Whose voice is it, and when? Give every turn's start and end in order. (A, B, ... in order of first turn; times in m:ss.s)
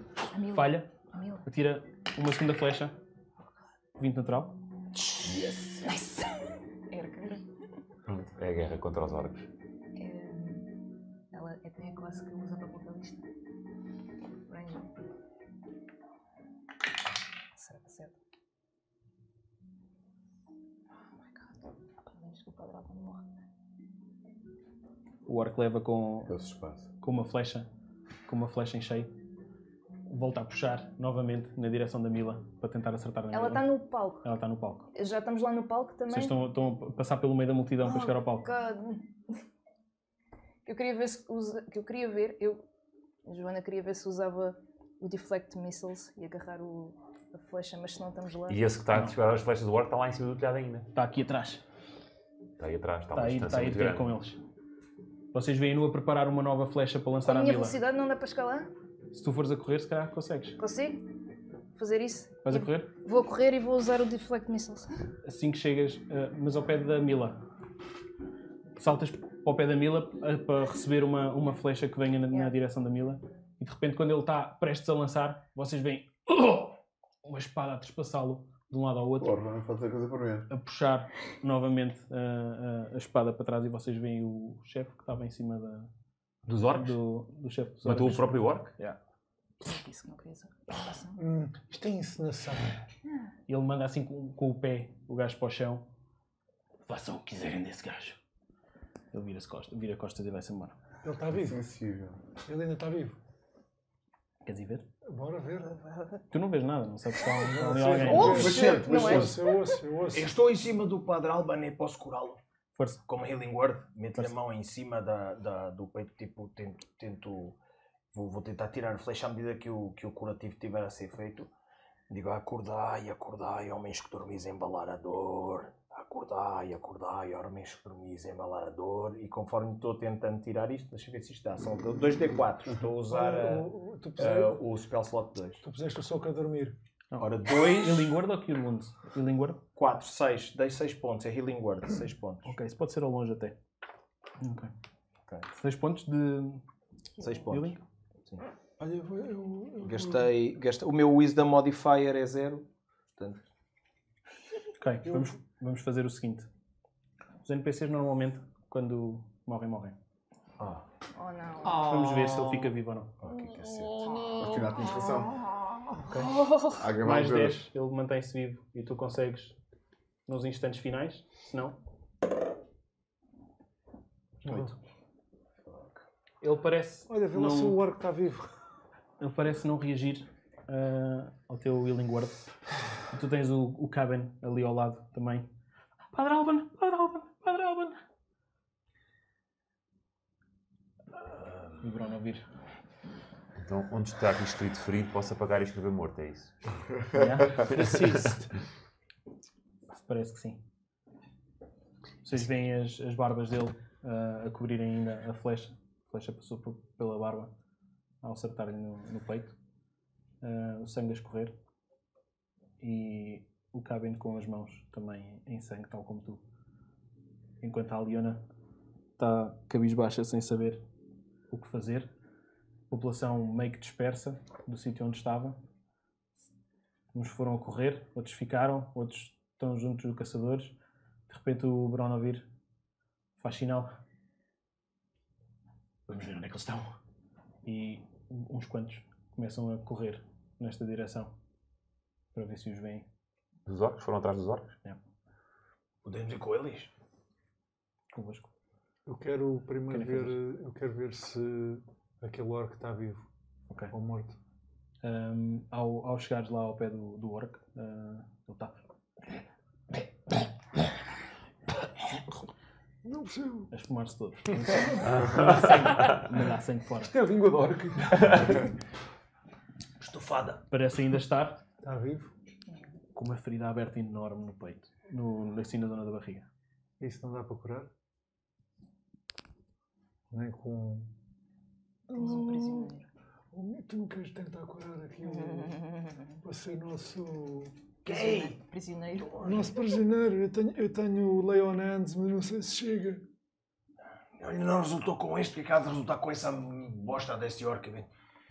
0:00.3-0:01.5 A
0:00.5-0:00.9 B
0:01.4-0:03.0 B
0:04.0-0:04.6 B
0:05.0-0:05.3 A
0:05.2-0:05.8 C
0:05.8-0:07.4 A
0:08.1-0:09.5 D
0:10.0-0:10.7 A
0:11.3-0:13.3 A
0:14.5-0:14.9 A
0:17.6-0:18.2 A
0:21.2-0:23.3 A
0:25.3-0:26.4 B
0:26.3-0:26.9 C
0:27.0-0:27.7 B
0:28.3-0:29.1 B
0:30.1-0:33.7 B
0:33.3-0:34.2 A
0:34.2-0:34.9 B
0:34.9-0:36.4 A
0:36.1-0:38.5 B
0:37.8-0:39.1 A
0:40.6-0:42.6 A
0:43.3-0:48.6 A
0:48.5-0:50.9 D
0:50.9-0:51.6 B
0:52.6-0:54.2 D
0:53.2-0:54.4 B
0:55.3-0:57.8 B
0:57.2-0:58.7 A
0:59.1-1:00.6 B
1:00.6-1:01.0 A
1:01.8-1:05.0 A
1:02.4-1:02.9 B
1:05.2-1:07.4 B
1:08.8-1:19.4 B
1:19.2-1:20.5 C
1:20.5-1:25.9 B
1:26.4-1:27.0 D
1:26.7-1:29.0 B
1:27.8-1:28.7 D
1:29.6-1:31.2 A
1:31.2-1:32.7 E
1:33.5-1:35.8 B
1:36.9-1:38.2 B
1:39.1-1:40.8 B
1:41.0-1:41.6 E
1:41.3-1:42.2 C
1:42.5-1:43.2 E
1:44.4-1:44.8 B
1:45.1-1:45.8 E
1:45.8-1:46.2 A
1:46.3-1:48.6 B
1:47.4-1:50.3 E
1:48.0-1:49.8 A
1:48.3-1:49.4 C
1:50.1-1:52.4 F
1:52.8-1:53.0 B
1:53.1-1:57.6 F
1:58.1-2:01.5 F
2:02.1-2:15.6 F
2:13.1-2:14.6 E
2:15.6-2:16.8 E
2:17.1-2:19.6 B
2:17.2-2:18.1 F
2:19.8-2:22.5 F
2:22.4-2:23.6 B
2:24.4-2:24.7 B
2:25.5-2:26.6 B
2:27.2-2:28.4 F
2:27.5-2:27.8 B
2:28.8-2:30.3 E
2:29.8-2:33.4 F
2:34.8-2:36.5 B
2:35.1-2:35.3 E
2:37.4-2:40.0 B
2:40.6-2:40.8 F
2:41.1-2:41.9 A
2:41.7-2:42.6 E
2:41.7-2:43.1 B
2:43.2-2:44.0 F
2:44.0-2:44.4 A
2:44.4-2:45.4 C
2:46.0-2:46.4 B
2:46.2-2:46.8 A
2:46.8-2:47.6 C
2:47.0-2:49.6 B
2:50.3-2:51.8 B
2:54.4-2:54.7 E
2:56.4-2:57.8 B
2:57.1-2:58.5 E
2:59.2-3:02.4 B
3:03.1-3:05.5 B
3:06.1-3:08.0 B
3:11.2-3:11.8 F
3:11.8-3:12.4 B
3:13.6-3:16.5 D
3:17.1-3:17.7 B
3:17.7-3:18.5 E
3:17.7-3:18.2 D
3:19.9-3:20.6 B
3:22.2-3:27.5 B
3:28.2-3:29.6 B
3:30.4-3:31.5 B
3:32.8-3:36.4 B
3:37.6-3:38.4 B
3:39.2-3:40.8 B
3:41.5-3:42.1 B
3:42.9-3:45.6 B
3:47.1-3:50.8 B
3:51.3-3:52.5 B
3:53.4-3:53.9 B
3:56.1-3:56.9 F
3:57.6-4:01.3 B
4:02.3-4:03.1 B
4:03.7-4:04.8 D
4:06.0-4:06.9 F
4:08.1-4:08.5 B
4:09.1-4:13.3 E
4:09.9-4:10.4 B
4:13.9-4:14.4 E
4:15.0-4:18.7 B
4:23.0-4:23.7 E
4:23.7-4:27.1 B
4:25.0-4:26.2 D
4:27.1-4:28.7 D
4:30.0-4:30.6 F
4:30.7-4:31.6 B
4:31.8-4:32.3 E
4:33.2-4:36.5 B
4:37.0-4:37.9 E
4:40.3-4:41.1 E
4:42.1-4:42.9 E
4:42.1-4:43.1 A
4:43.5-4:45.9 E
4:45.2-4:46.4 A
4:46.4-4:47.7 E
4:48.0-4:48.6 F
4:48.1-4:49.7 A
4:49.2-4:49.8 F
4:49.4-4:53.2 E
4:54.4-4:58.1 F